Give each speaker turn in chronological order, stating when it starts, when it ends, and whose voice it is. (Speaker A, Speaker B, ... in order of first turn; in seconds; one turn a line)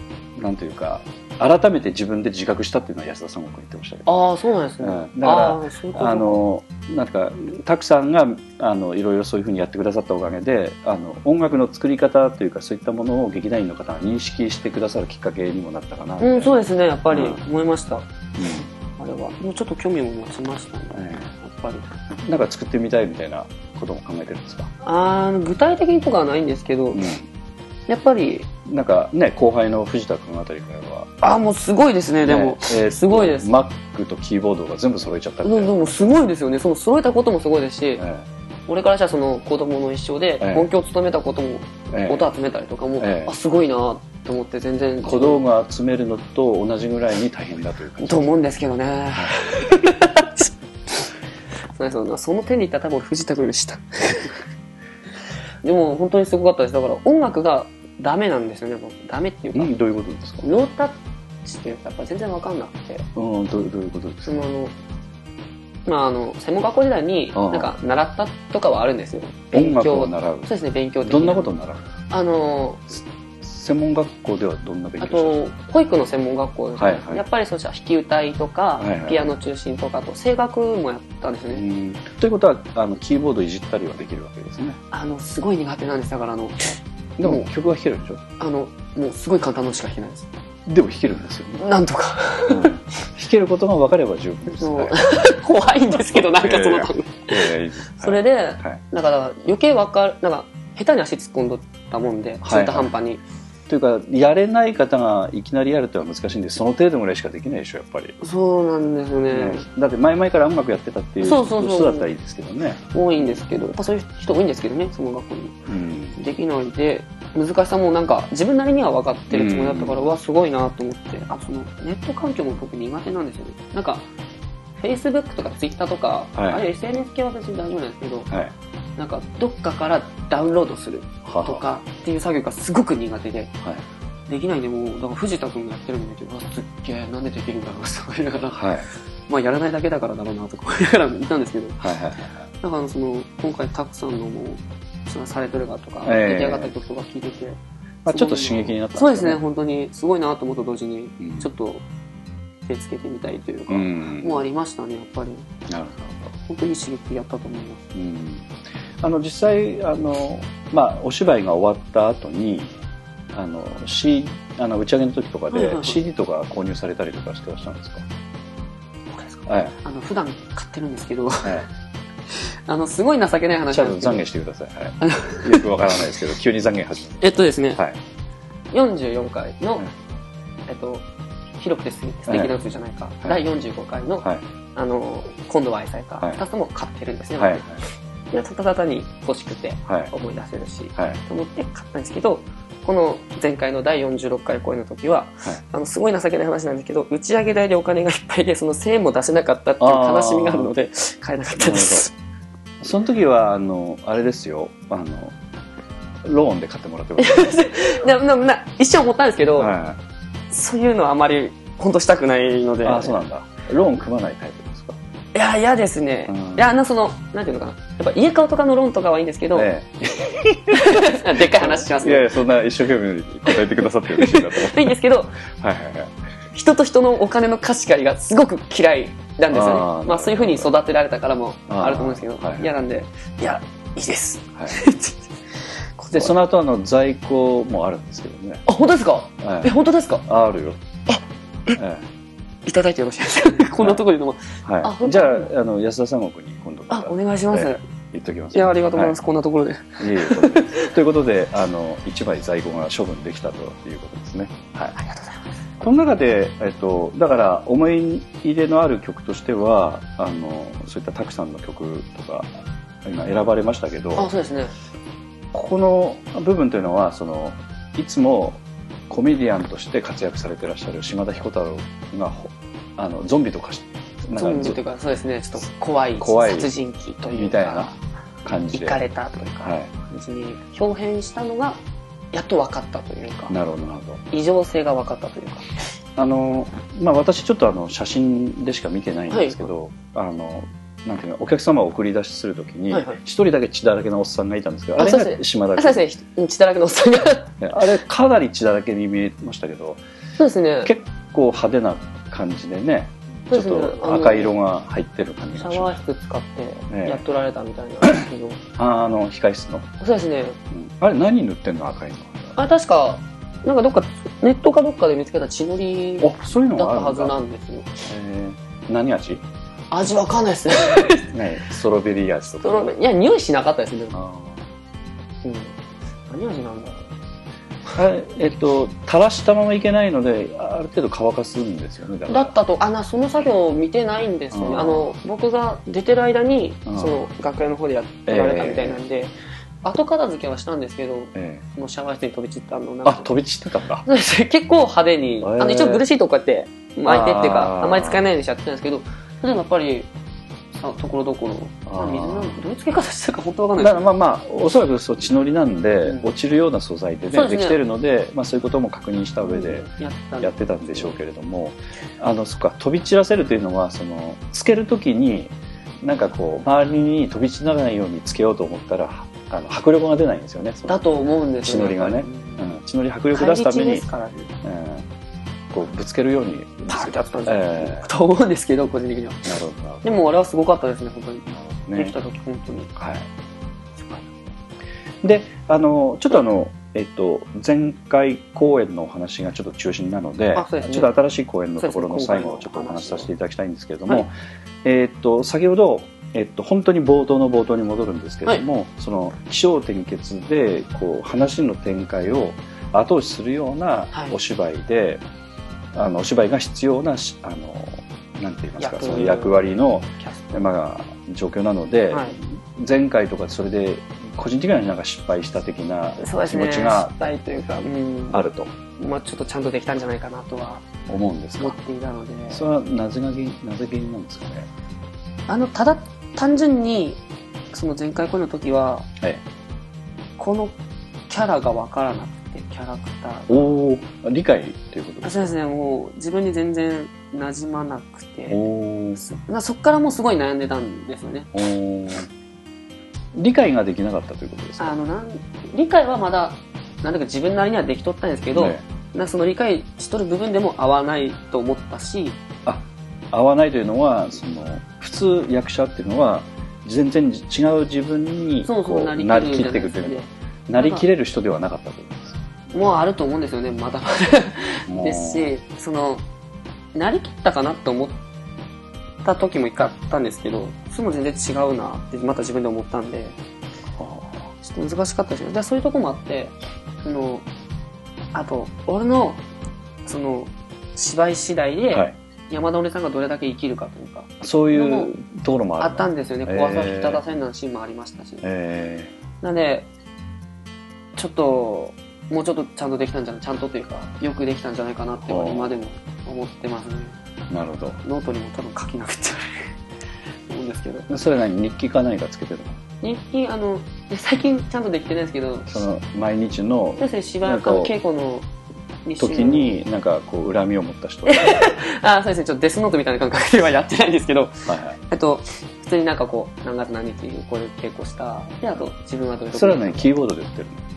Speaker A: 0.3-4.1
Speaker B: 4.0-6.4
Speaker A: 4.8-17.4
Speaker B: 16.2-18.1
Speaker A: 18.4-18.7
Speaker B: 19.0-21.9
Speaker A: 20.9-21.3
Speaker A: 22.2-24.7
Speaker B: 24.8-27.1
Speaker A: 26.9-27.3
Speaker B: 27.9-28.5
Speaker A: 28.6-31.2
Speaker B: 31.2-33.5
Speaker A: 32.2-36.1
Speaker B: 35.4-38.0
Speaker A: 38.0-38.2
Speaker B: 38.7-45.4
Speaker A: 40.4-40.7
Speaker A: 41.9-42.2
Speaker A: 43.0-43.3
Speaker A: 45.0-48.3
Speaker B: 48.0-50.5
Speaker B: 51.7-54.4
Speaker B: 55.6-59.8
Speaker A: 59.5-60.5
Speaker B: 60.4-63.1
Speaker A: 63.1-64.3
Speaker B: 64.2-64.7
Speaker B: 65.8-71.5
Speaker A: 67.3-67.7
Speaker A: 69.5-70.5
Speaker A: 71.0-71.8
Speaker B: 72.1-73.0
Speaker A: 73.4-75.4
Speaker B: 75.0-81.6
Speaker A: 76.8-77.2
Speaker A: 78.8-79.3
Speaker A: 81.5-84.8
Speaker B: 84.9-87.4
Speaker A: 87.2-88.2
Speaker B: 88.4-90.3
Speaker A: 90.7-91.6
Speaker B: 91.6-92.8
Speaker A: 92.5-95.0
Speaker B: 94.5-103.2
Speaker A: 95.9-98.8
Speaker A: 102.4-102.9
Speaker A: 103.7-108.2
Speaker B: 108.2-109.6
Speaker A: 109.3-113.3
Speaker B: 111.2-112.1
Speaker B: 112.9-115.6
Speaker A: 115.7-116.2
Speaker B: 116.1-124.1
Speaker A: 119.3-120.1
Speaker B: 124.8-128.3
Speaker A: 126.3-126.6
Speaker A: 128.3-128.5
Speaker B: 129.0-133.5
Speaker A: 131.2-131.6
Speaker B: 134.3-138.7
Speaker A: 138.5-138.9
Speaker B: 139.3-141.9
Speaker A: 141.8-142.4
Speaker B: 142.6-151.8
Speaker A: 146.0-146.7
Speaker A: 148.0-149.4
Speaker A: 151.2-151.5
Speaker B: 152.7-155.5
Speaker A: 153.7-154.4
Speaker A: 155.7-156.3
Speaker B: 156.5-157.8
Speaker A: 157.9-162.8
Speaker A: 163.3-168.1
Speaker B: 165.5-166.0
Speaker B: 169.1-171.7
Speaker A: 169.5-169.7
Speaker B: 172.3-174.2
Speaker A: 173.7-178.0
Speaker B: 175.0-175.7
Speaker B: 177.2-177.8
Speaker B: 178.7-179.9
Speaker B: 180.7-181.1
Speaker B: 181.6-202.1
Speaker A: 182.3-182.5
Speaker A: 187.4-187.8
Speaker A: 189.8-190.1
Speaker A: 199.8-200.7
Speaker A: 201.6-202.1
Speaker A: 202.8-205.3
Speaker A: 206.2-207.6
Speaker B: 207.2-209.7
Speaker A: 209.6-210.0
Speaker B: 210.5-213.2
Speaker A: 212.8-215.0
Speaker B: 215.3-219.7
Speaker A: 216.3-216.7
Speaker A: 219.5-224.9
Speaker B: 220.7-222.3
Speaker B: 223.5-225.4
Speaker A: 225.4-226.1
Speaker B: 226.5-235.3
Speaker A: 229.5-230.7
Speaker A: 231.7-232.7
Speaker B: 236.0-236.3
Speaker A: 236.1-238.6
Speaker B: 238.7-240.2
Speaker A: 239.4-240.8
Speaker B: 241.1-241.8
Speaker A: 241.7-242.1
Speaker B: 242.7-245.5
Speaker A: 244.6-249.2
Speaker B: 246.9-247.8
Speaker B: 248.5-250.9
Speaker A: 250.0-254.9
Speaker B: 255.0-255.4
Speaker A: 255.8-262.5
Speaker A: 263.0-264.3
Speaker B: 264.1-264.7
Speaker A: 265.5-274.8
Speaker B: 274.3-277.9
Speaker A: 276.2-276.7
Speaker A: 277.3-277.9
Speaker A: 278.4-279.0
Speaker B: 278.7-281.8
Speaker A: 279.6-279.9
Speaker B: 282.3-283.6
Speaker A: 283.5-284.2
Speaker B: 284.3-285.7
Speaker A: 286.2-296.0
Speaker B: 289.3-289.7
Speaker B: 292.9-293.2
Speaker B: 295.0-297.6
Speaker A: 297.6-300.0
Speaker B: 300.4-300.9
Speaker A: 300.8-306.0
Speaker B: 303.5-304.5
Speaker B: 305.5-308.6
Speaker A: 306.9-307.2
Speaker A: 308.8-309.9
Speaker B: 310.0-310.6
Speaker A: 310.7-312.6
Speaker B: 312.6-317.9
Speaker A: 316.2-317.4
Speaker A: 318.0-319.4
Speaker B: 319.9-321.3
Speaker A: 321.3-322.9
Speaker B: 322.6-324.2
Speaker A: 324.1-324.6
Speaker B: 325.4-325.7
Speaker B: 326.3-327.1
Speaker A: 327.9-332.5
Speaker B: 332.3-343.3
Speaker A: 334.5-335.1
Speaker A: 336.9-337.2
Speaker A: 338.3-339.0
Speaker A: 341.3-341.6
Speaker A: 343.0-344.0
Speaker B: 344.0-350.1
Speaker A: 345.4-346.0
Speaker A: 347.0-348.2
Speaker B: 350.7-354.1
Speaker A: 351.9-352.6
Speaker A: 353.8-359.9
Speaker B: 357.3-357.8
Speaker B: 359.4-361.2
Speaker A: 360.4-371.0
Speaker B: 370.9-372.7
Speaker A: 371.6-374.1
Speaker B: 373.3-374.5
Speaker A: 374.6-375.1
Speaker A: 375.7-378.1
Speaker B: 376.9-382.9
Speaker A: 379.4-380.1
Speaker A: 381.5-382.1
Speaker A: 382.9-383.3
Speaker B: 383.9-384.4
Speaker A: 385.2-394.3
Speaker B: 390.5-391.1
Speaker B: 391.8-393.3
Speaker A: 394.8-405.2
Speaker B: 404.1-404.4
Speaker A: 405.9-417.1
Speaker B: 408.8-410.7
Speaker B: 416.2-418.4
Speaker A: 418.3-418.7
Speaker B: 419.0-420.9
Speaker A: 421.1-421.8
Speaker B: 421.6-422.7
Speaker A: 422.5-424.7
Speaker B: 425.5-427.2
Speaker B: 427.7-429.1
Speaker B: 430.4-430.8
Speaker B: 431.3-433.8
Speaker A: 433.5-435.5
Speaker B: 435.2-438.6
Speaker A: 438.5-439.2
Speaker B: 439.1-441.5
Speaker A: 441.5-442.3
Speaker A: 443.3-444.9
Speaker B: 444.8-452.4
Speaker A: 448.5-448.8
Speaker A: 452.6-462.4
Speaker B: 458.6-461.1
Speaker B: 462.7-466.2
Speaker A: 464.9-465.5
Speaker B: 466.9-468.2
Speaker B: 469.2-473.4
Speaker A: 474.0-474.5
Speaker B: 474.6-477.4
Speaker B: 478.3-479.4
Speaker B: 480.1-485.1
Speaker A: 484.4-487.2
Speaker B: 485.8-488.4
Speaker A: 488.4-489.1
Speaker B: 489.4-489.9
Speaker B: 491.1-497.2
Speaker A: 495.3-495.8
Speaker A: 497.5-498.0
Speaker B: 498.0-499.6
Speaker B: 500.5-501.1
Speaker A: 501.1-502.8
Speaker B: 503.0-505.8
Speaker A: 505.7-507.9
Speaker B: 507.0-508.5
Speaker B: 509.0-509.8
Speaker A: 509.2-511.7
Speaker B: 511.3-520.1
Speaker A: 514.7-515.0
Speaker A: 519.5-520.8